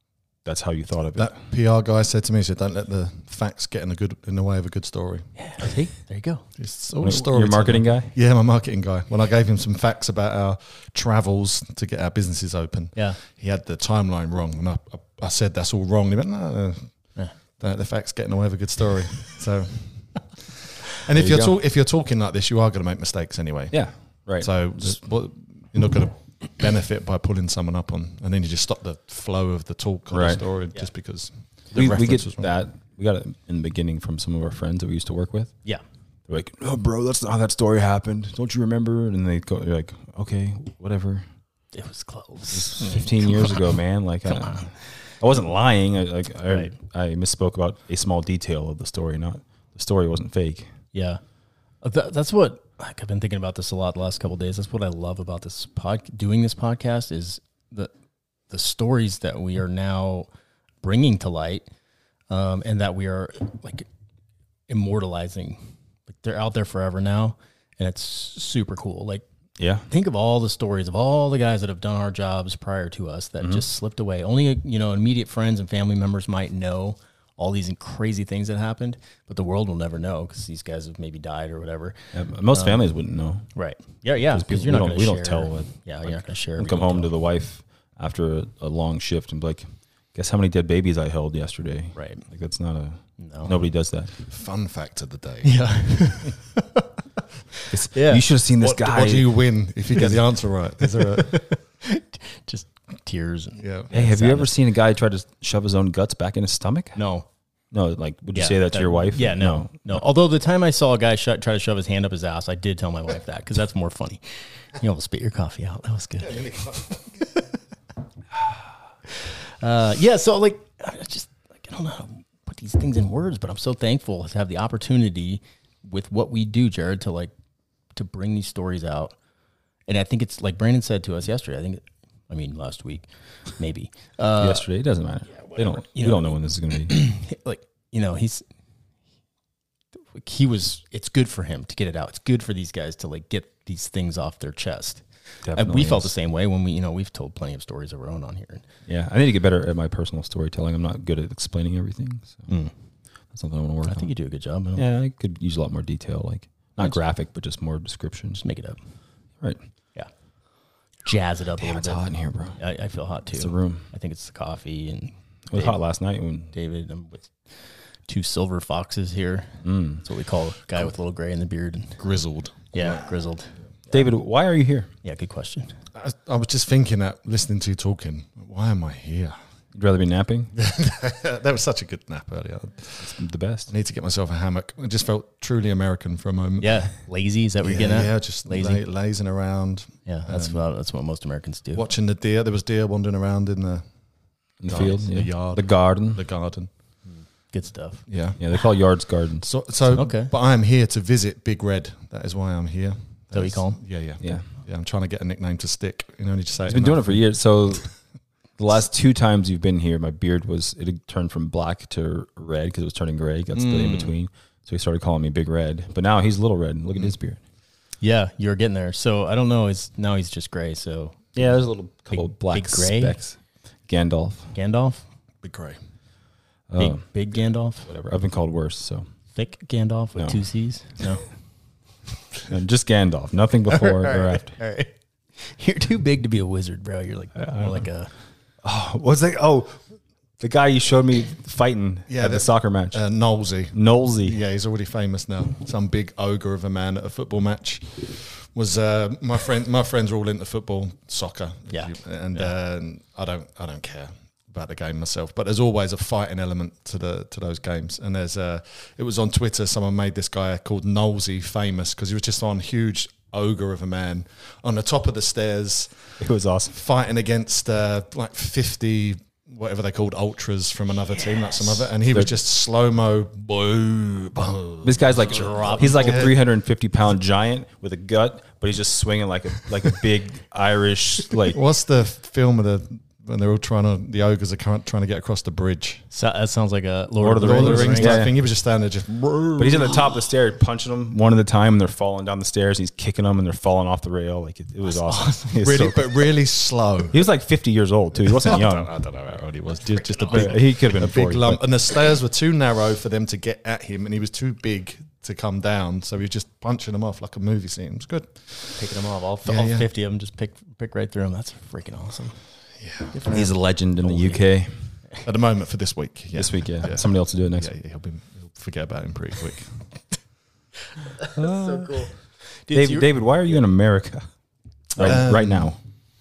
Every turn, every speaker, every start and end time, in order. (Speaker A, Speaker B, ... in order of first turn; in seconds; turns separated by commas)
Speaker A: 0.4-1.4, Speaker B: 1.1-5.3, Speaker C: 5.4-6.4, Speaker B: 6.6-32.5, Speaker A: 7.0-8.1, Speaker A: 21.1-21.5, Speaker A: 23.7-24.9, Speaker A: 30.1-30.4, Speaker A: 31.7-35.6, Speaker A: 36.3-41.2, Speaker C: 41.7-43.7, Speaker A: 42.5-50.7, Speaker C: 44.3-44.7, Speaker C: 50.9-51.2, Speaker C: 51.8-57.9, Speaker C: 58.5-60.3, Speaker C: 60.8-61.7, Speaker C: 62.3-63.9, Speaker C: 64.7-69.2, Speaker A: 69.6-69.8, Speaker C: 69.9-82.9, Speaker A: 73.4-73.6, Speaker A: 82.1-83.5, Speaker C: 83.5-87.1, Speaker A: 84.2-94.1, Speaker C: 91.9-92.2, Speaker C: 93.2-93.5, Speaker B: 94.3-96.3, Speaker C: 95.4-96.8, Speaker A: 97.7-99.4, Speaker C: 97.9-98.2, Speaker B: 98.6-101.5, Speaker C: 101.0-104.5, Speaker B: 103.6-103.9, Speaker A: 103.9-107.0, Speaker C: 106.9-107.2, Speaker A: 107.7-110.0, Speaker C: 108.3-117.4, Speaker B: 116.2-117.2, Speaker C: 119.1-127.3, Speaker C: 127.9-129.1, Speaker C: 129.9-134.7, Speaker A: 134.4-137.0, Speaker C: 135.3-138.4, Speaker C: 140.1-148.6, Speaker A: 145.4-146.1, Speaker A: 148.9-152.5, Speaker C: 152.5-152.7, Speaker A: 153.3-154.1, Speaker C: 153.8-154.8, Speaker A: 154.7-158.4, Speaker C: 158.4-158.8, Speaker C: 161.0-165.8, Speaker A: 161.6-162.6, Speaker A: 163.3-163.8, Speaker A: 165.5-166.5, Speaker C: 166.5-172.0, Speaker A: 169.6-170.0, Speaker B: 172.0-173.1, Speaker C: 172.7-174.1, Speaker A: 173.9-174.9, Speaker C: 175.0-175.8, Speaker B: 175.9-179.4, Speaker A: 179.7-180.5, Speaker B: 180.5-186.9, Speaker A: 183.0-183.7, Speaker C: 186.6-188.8, Speaker B: 187.6-190.6, Speaker C: 190.1-191.8, Speaker B: 191.7-193.8, Speaker A: 194.6-196.2, Speaker B: 194.7-196.7, Speaker C: 197.0-198.0, Speaker B: 198.1-198.4, Speaker A: 198.4-199.5, Speaker B: 199.4-207.2, Speaker C: 199.9-200.3, Speaker C: 203.3-203.8, Speaker A: 204.2-204.5, Speaker A: 206.7-207.9, Speaker A: 208.6-217.4, Speaker C: 213.6-214.1, Speaker C: 218.0-221.3, Speaker A: 221.3-224.5, Speaker C: 222.1-223.2, Speaker C: 224.5-225.0, Speaker B: 225.4-225.8, Speaker A: 226.7-227.2, Speaker C: 226.8-227.9, Speaker A: 227.8-229.1, Speaker C: 229.3-231.2, Speaker A: 230.2-230.4, Speaker A: 232.5-234.5, Speaker C: 233.7-238.1, Speaker A: 237.3-237.8, Speaker A: 238.6-239.8, Speaker A: 240.4-243.0, Speaker B: 242.1-266.2, Speaker A: 243.7-244.4, Speaker C: 251.7-252.5, Speaker A: 266.2-266.8, Speaker B: 266.7-276.4, Speaker A: 274.8-281.6, Speaker C: 275.3-276.3, Speaker B: 281.5-286.0, Speaker C: 286.1-288.2, Speaker A: 287.2-288.3, Speaker B: 287.4-290.0, Speaker A: 289.6-296.1, Speaker C: 294.9-295.8, Speaker B: 295.6-297.2, Speaker A: 297.1-298.9, Speaker B: 298.2-308.9, Speaker C: 300.1-300.5, Speaker A: 300.3-301.6, Speaker C: 308.8-312.5, Speaker B: 309.4-309.9, Speaker B: 312.8-313.2, Speaker C: 313.1-314.4, Speaker A: 313.3-314.7, Speaker B: 315.2-319.9, Speaker A: 316.3-317.7, Speaker C: 321.2-323.1, Speaker A: 321.3-322.2, Speaker A: 322.7-324.3, Speaker A: 324.9-325.8, Speaker B: 325.0-325.7